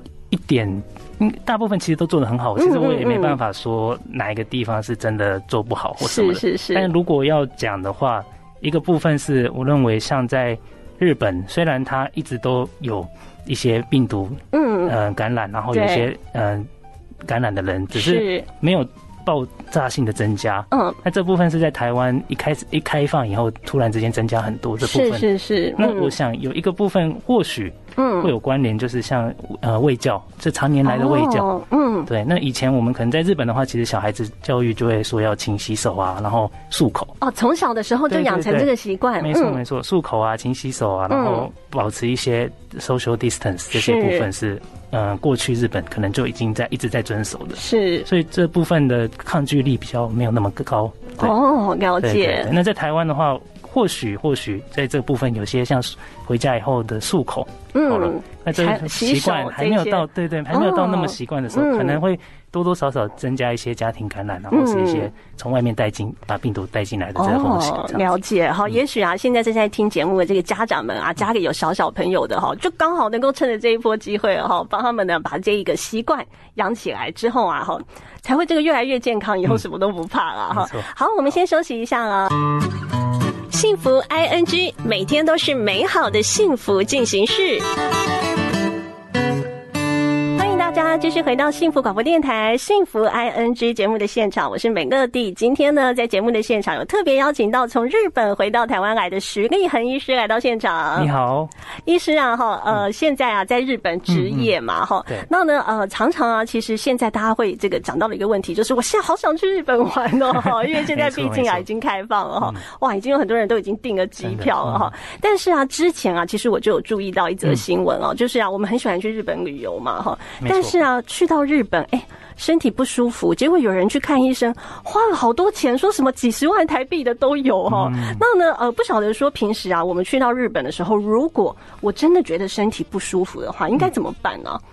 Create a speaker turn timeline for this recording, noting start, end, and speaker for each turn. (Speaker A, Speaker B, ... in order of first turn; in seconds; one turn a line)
Speaker A: 0.3-16.7
Speaker B: 2.6-3.4
Speaker B: 6.0-6.9
Speaker B: 14.5-15.0
Speaker B: 15.7-16.1
Speaker A: 17.2-31.5
Speaker B: 17.9-18.5
Speaker B: 20.7-21.0
Speaker B: 24.8-26.1
Speaker B: 28.0-28.3
Speaker B: 30.9-32.1
Speaker A: 32.1-37.2
Speaker B: 37.2-39.6
Speaker A: 38.1-51.4
Speaker B: 41.1-41.5
Speaker B: 43.7-44.3
Speaker B: 47.6-48.1
Speaker B: 51.2-52.5
Speaker A: 52.0-68.2
Speaker B: 57.7-62.0
Speaker B: 64.5-65.1
Speaker B: 67.2-82.6
Speaker A: 80.5-80.9
Speaker B: 83.5-87.7
Speaker B: 90.3-101.1
Speaker A: 101.0-101.5
Speaker B: 101.9-134.6
Speaker A: 104.1-104.5
Speaker A: 110.4-111.7
Speaker A: 114.2-114.9
Speaker A: 120.4-120.8
Speaker A: 127.7-128.2